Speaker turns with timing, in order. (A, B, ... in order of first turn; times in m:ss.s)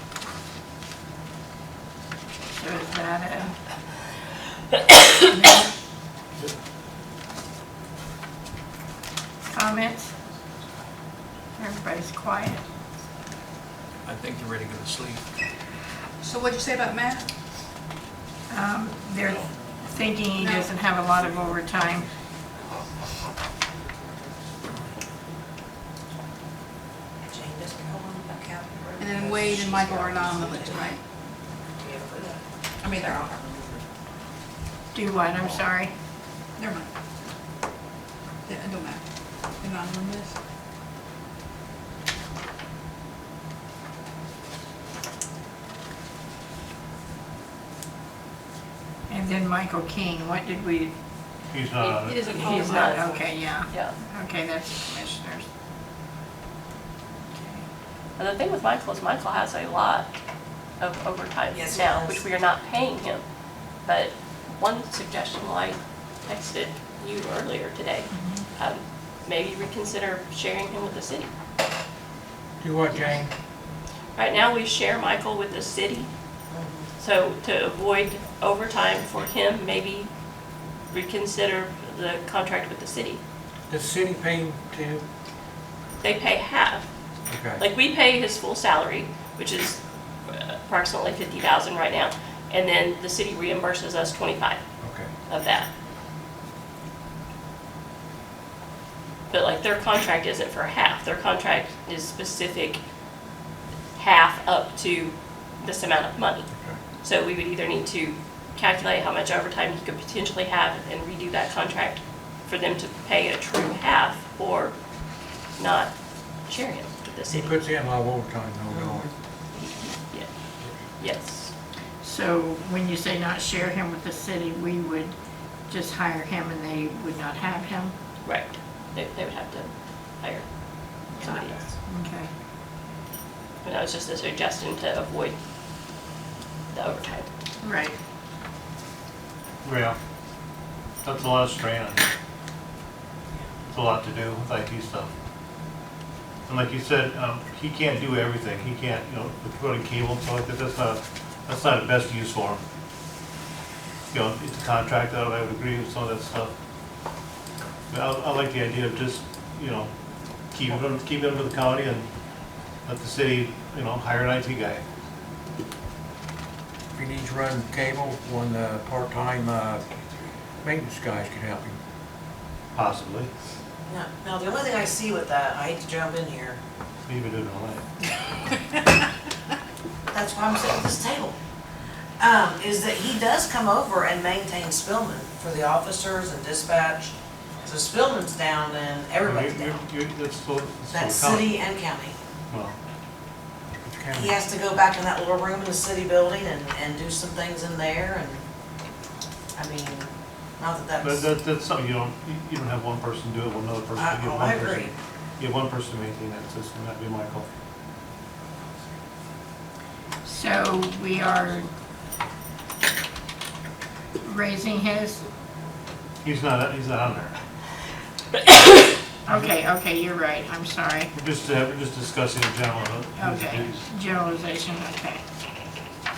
0:02.5-0:03.6 A
0:05.3-0:05.7 B
0:09.5-0:10.1 A
0:11.6-0:12.6 A
0:14.1-0:15.2 C
0:16.2-0:17.3 B
0:18.5-0:22.1 A
0:20.4-0:20.8 B
0:27.2-0:30.9 D
0:29.0-0:31.0 B
0:31.8-0:32.4 D
0:32.8-0:33.3 B
0:33.0-0:33.2 D
0:34.9-0:35.9 A
0:36.6-0:36.9 B
0:38.5-0:40.4 B
0:49.1-0:50.9 A
0:51.5-0:52.3 E
0:51.8-0:53.3 B
0:52.3-0:53.1 F
0:52.4-0:55.5 A
0:53.6-0:54.0 F
0:57.3-0:57.6 A
0:58.2-1:00.1 F
1:00.8-1:03.2 F
1:01.5-1:02.2 D
1:03.8-1:11.3 F
1:08.1-1:08.5 A
1:12.6-1:13.3 C
1:14.2-1:16.1 F
1:16.5-1:16.9 D
1:17.0-1:20.1 F
1:20.9-1:23.2 F
1:23.7-1:25.0 C
1:26.0-1:26.9 F
1:27.3-1:27.6 C
1:27.6-1:34.6 F
1:34.8-1:35.1 C
1:35.3-1:35.7 F
1:39.3-1:42.8 F
1:44.0-1:46.5 F
1:46.5-1:46.8 C
1:47.0-1:54.8 F
1:55.6-1:55.9 F
1:56.5-1:57.6 F
1:57.3-1:59.1 C
1:58.7-1:59.1 D
1:59.5-2:00.3 F
2:01.0-2:01.5 F
2:02.0-2:05.2 A
2:05.7-2:08.0 A
2:08.2-2:10.5 F
2:11.0-2:11.7 F
2:11.2-2:12.3 A
2:13.6-2:15.4 F
2:16.7-2:17.3 F
2:17.6-2:18.0 A
2:19.6-2:20.0 E
2:21.0-2:22.1 E
2:23.7-2:25.1 E
2:26.5-2:32.6 E
2:34.1-2:36.5 E
2:37.9-2:39.9 E
2:40.5-2:42.1 E
2:42.8-2:44.8 E
2:46.9-2:49.9 C
2:50.6-2:51.8 C
2:52.8-2:53.3 E
2:53.9-2:56.6 D
2:57.0-2:57.9 E
3:00.1-3:01.4 D
3:02.2-3:09.8 D
3:09.2-3:11.6 E
3:10.9-3:12.2 D
3:12.5-3:12.8 E
3:13.8-3:14.4 C
3:14.1-3:18.4 D
3:19.6-3:21.3 D
3:21.0-3:27.5 E
3:24.0-3:24.9 D
3:30.2-3:31.7 A
3:34.2-3:35.3 A
3:36.2-3:37.5 E
3:39.3-3:41.1 A
3:41.1-3:43.9 E
3:43.2-3:45.2 A